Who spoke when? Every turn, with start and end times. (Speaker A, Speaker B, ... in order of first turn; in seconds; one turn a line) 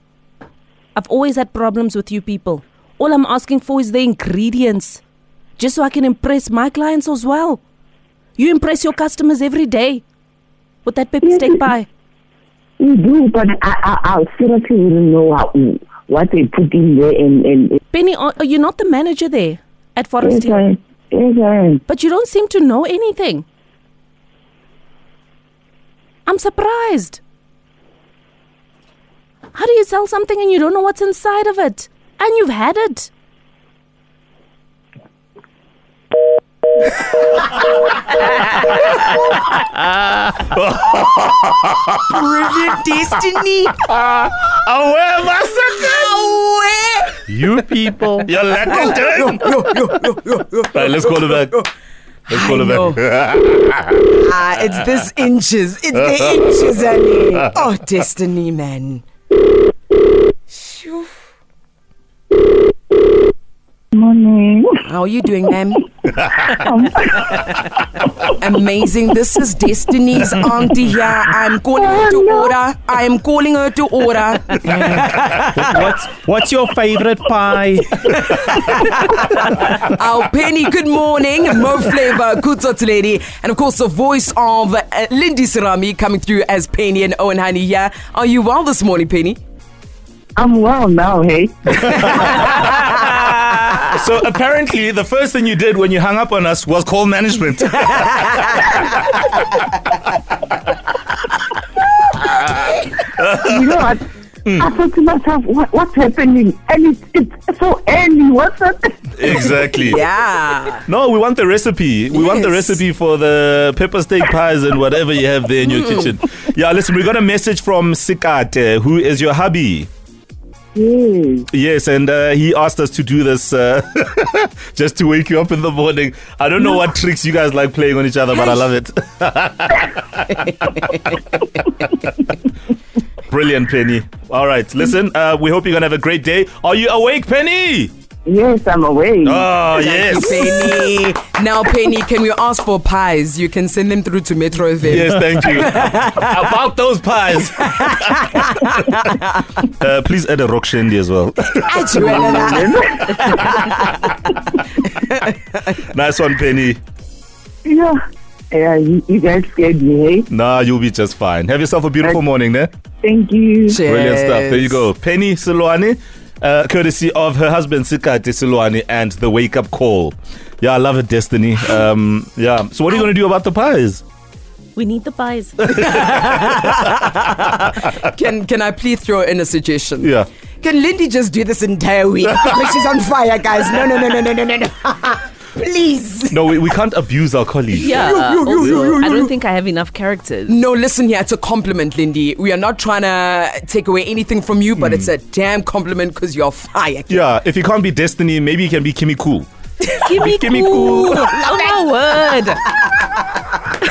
Speaker A: 0.9-5.0
Speaker A: 5.6-7.6
Speaker A: 8.4-10.0
Speaker A: 10.8-11.9
Speaker B: 11.2-11.7
Speaker B: 12.8-17.8
Speaker A: 17.9-20.6
Speaker B: 20.2-21.8
Speaker A: 21.9-23.4
Speaker A: 26.2-27.2
Speaker A: 29.5-33.1
Speaker C: 38.1-42.2
Speaker D: 42.1-43.9
Speaker C: 43.9-46.3
Speaker D: 45.9-47.1
Speaker E: 47.3-48.3
Speaker C: 47.5-49.6
Speaker D: 48.6-51.7
Speaker C: 50.7-51.5
Speaker D: 52.3-53.0
Speaker C: 52.3-54.1
Speaker D: 54.1-59.0
Speaker D: 60.5-61.1
Speaker B: 63.9-64.8
Speaker D: 64.8-65.9
Speaker C: 66.2-66.5
Speaker B: 66.5-67.4
Speaker D: 68.4-75.9
Speaker B: 71.7-72.5
Speaker E: 74.7-77.9
Speaker D: 78.2-89.4
Speaker B: 90.3-92.4
Speaker C: 91.8-99.3
Speaker D: 92.1-92.8
Speaker C: 102.3-103.9
Speaker B: 103.4-104.0
Speaker C: 104.4-104.7
Speaker B: 104.6-109.6
Speaker C: 109.2-110.0
Speaker D: 109.7-110.8
Speaker C: 110.9-119.9
Speaker D: 112.1-112.8
Speaker D: 115.6-116.1
Speaker B: 120.7-121.5
Speaker C: 121.5-131.1
Speaker C: 133.3-137.9
Speaker B: 138.2-139.5
Speaker C: 139.2-140.7
Speaker D: 139.6-146.5
Speaker C: 144.8-148.9
Speaker D: 147.7-149.1
Speaker C: 149.6-152.1
Speaker D: 151.5-154.3
Speaker B: 151.9-153.6
Speaker C: 153.3-153.7
Speaker D: 154.8-155.3
Speaker C: 155.7-156.8
Speaker B: 157.6-158.0
Speaker B: 158.5-160.3
Speaker C: 160.3-162.7
Speaker B: 163.0-163.8
Speaker D: 163.7-164.8
Speaker C: 163.8-174.0
Speaker A: 174.7-175.7
Speaker D: 175.8-186.5
Speaker C: 175.9-176.2
Speaker C: 180.0-180.3
Speaker C: 186.3-189.0
Speaker D: 187.8-189.3
Speaker A: 187.8-190.6
Speaker D: 190.5-197.3
Speaker C: 194.8-195.1
Speaker C: 197.1-199.5
Speaker A: 199.8-202.6
Speaker C: 200.1-201.3
Speaker D: 201.2-201.7